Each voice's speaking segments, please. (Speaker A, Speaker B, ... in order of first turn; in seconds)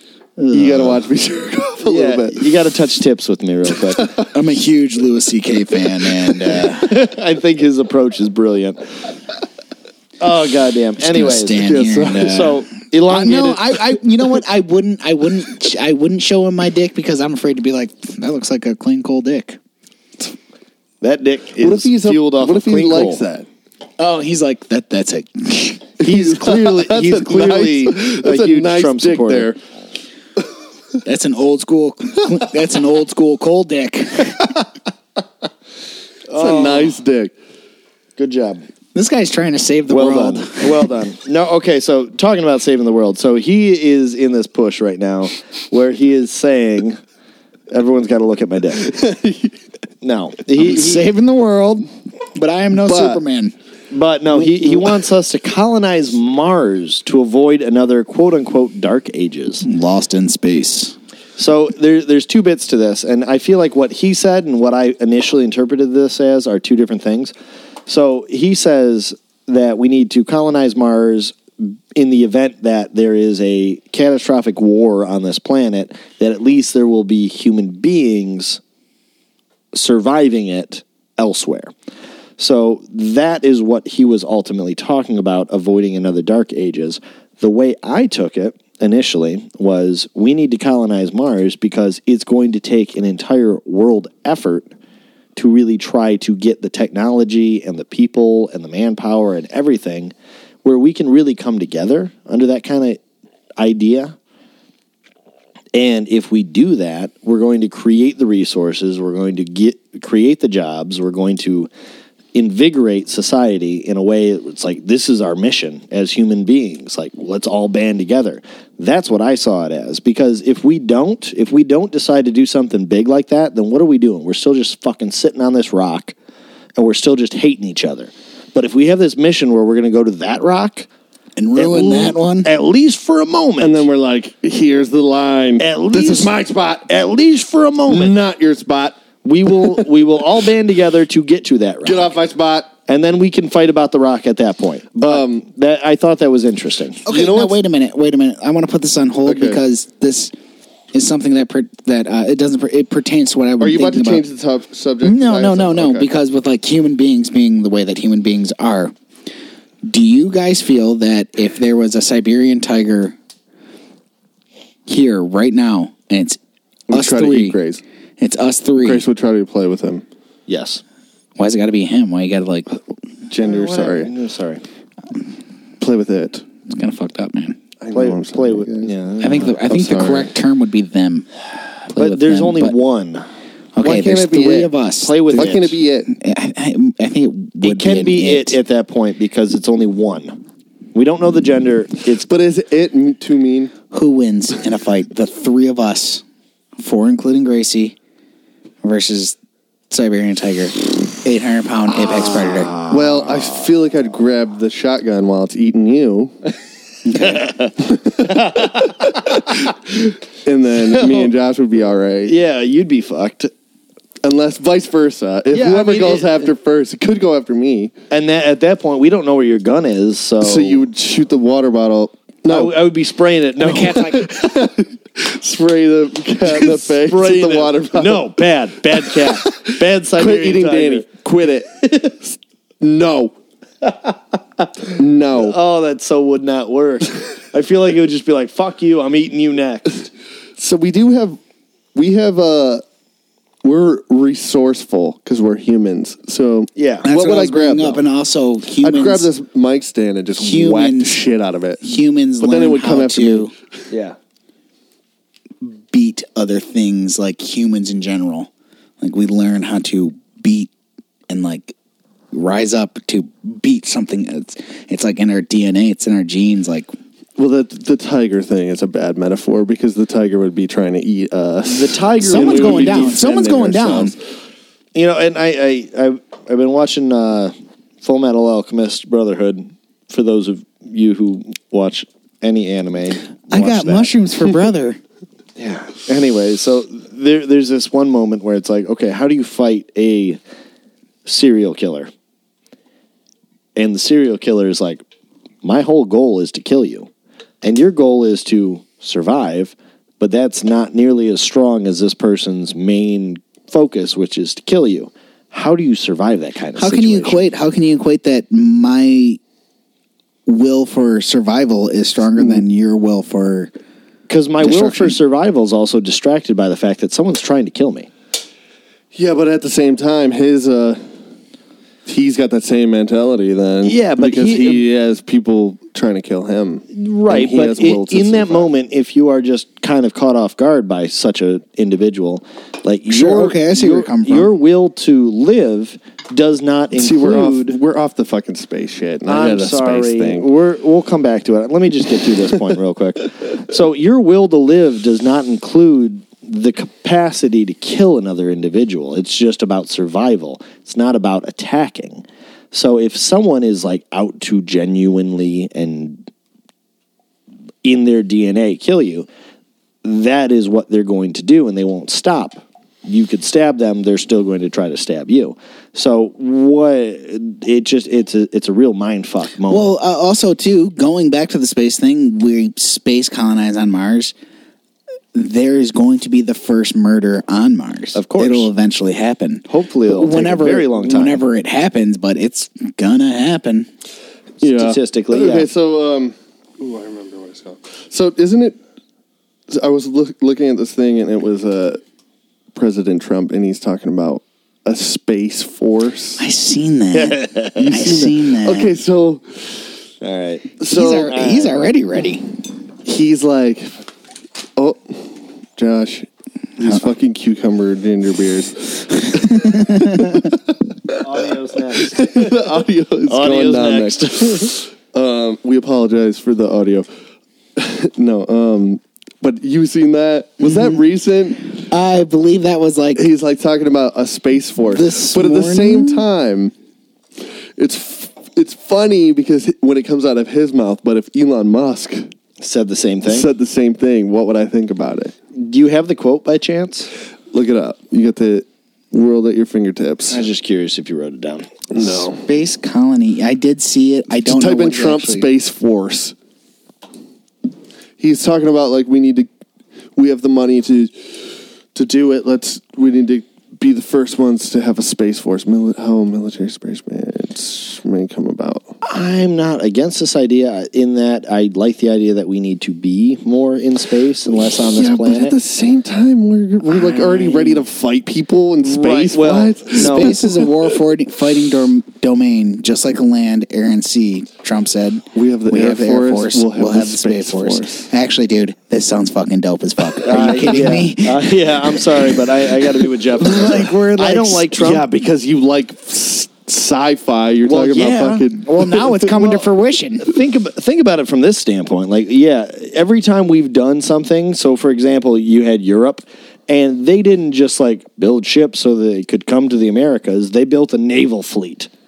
Speaker A: 0.4-1.0, 1.9-4.2, 6.8-8.9, 10.2-13.8, 21.0-23.2, 26.0-29.5, 36.3-37.0, 38.2-38.6, 39.9-47.0, 47.7-48.9, 50.0-51.1, 53.9-59.7, 61.4-67.3, 67.9-78.6, 79.7-81.7, 82.4-94.7, 95.4-103.0, 103.6-104.2, 105.7-111.7, 112.3-126.2, 126.8-130.9, 131.6-133.8, 135.6-136.3, 136.8-138.2, 139.2-142.2, 142.9-147.1, 170.5-170.8, 173.4-174.6, 177.9-179.6, 181.9-183.3, 185.0-185.8, 187.6-190.4, 190.9-192.3, 202.6-203.0, 207.2-209.2, 212.3-213.5, 215.5-216.4, 218.1-220.8, 222.5-224.3, 226.4-231.1, 231.8-232.2, 233.8-240.1, 246.8-247.1, 253.9-254.2, 271.7-273.2, 274.9-284.1, 285.6-290.4, 291.2-292.1, 293.8-295.0, 295.6-297.1, 297.6-307.4, 314.3-318.1, 323.8-324.9, 326.9-337.8, 339.3-356.3, 357.8-359.3, 360.0-369.9, 378.1-378.7, 379.7-381.4, 384.6-385.7, 397.1-397.9, 400.2-401.8, 411.2-412.6, 413.3-414.8, 432.6-433.5, 435.6-437.1, 440.3-442.2, 459.0-465.6, 466.9-467.8, 468.8-470.4, 480.2-485.1, 488.1-488.3, 490.2-501.9
Speaker B: 0.5-2.5, 11.6-12.4, 21.6-23.5, 26.0-29.6, 36.4-37.3, 48.8-49.5, 52.9-53.2, 54.6-54.9, 133.6-136.9, 137.9-139.0, 139.6-139.8, 141.8-142.7, 145.0-145.4, 147.1-147.5, 149.2-149.6, 153.6-156.1, 166.9-167.8, 168.8-170.1, 173.3-174.1, 175.8-176.4, 177.8-178.9, 179.6-180.3, 183.8-184.7, 185.3-186.1, 192.2-193.7, 202.9-206.3, 210.4-212.4, 214.2-217.9, 220.4-222.8, 223.7-228.3, 229.0-233.3, 234.9-235.6, 240.6-241.4, 241.9-242.8, 243.6-248.0, 248.8-251.8, 252.4-253.5, 267.4-274.2, 312.4-312.6, 319.1-321.1, 322.1-328.7, 336.9-340.5, 384.6-388.8, 389.7-392.0, 392.8-396.4, 397.8-399.8, 400.8-401.4, 403.0-404.0, 404.8-410.6, 412.0-417.1, 417.8-421.7, 423.1-426.7, 427.8-432.3, 433.3-435.3, 437.5-440.5, 441.9-442.5, 444.4-446.4, 448.2-449.5, 450.2-458.9, 464.6-471.0, 475.4-478.1, 483.6-483.9, 484.7-489.6
Speaker C: 4.3-7.0, 11.0-19.6, 24.0-25.9, 31.1-34.5, 39.0-40.9, 50.5-53.5, 59.6-61.0, 131.4-132.5, 147.1-150.3, 150.9-154.2, 155.0-158.9, 159.8-163.2, 164.9-166.4, 166.9-167.6, 168.2-169.1, 171.4-172.7, 176.7-177.6, 179.2-181.3, 181.8-182.7, 183.8-188.6, 193.9-196.2, 196.8-198.0, 198.8-199.4, 199.9-202.7, 207.1-207.6, 223.7-224.2, 247.0-249.3, 250.4-251.2, 251.8-253.5, 255.6-260.7, 261.3-261.8, 262.3-266.9, 272.2-274.1, 283.5-285.0, 306.8-309.4, 310.5-313.7, 314.6-315.2, 333.1-334.5, 369.7-374.3, 375.3-383.9, 396.4-398.9, 400.8-402.5, 409.6-410.4, 420.6-421.0, 421.8-423.2, 424.9-426.3, 442.5-445.5, 469.9-481.8, 483.5-484.7, 487.7-490.3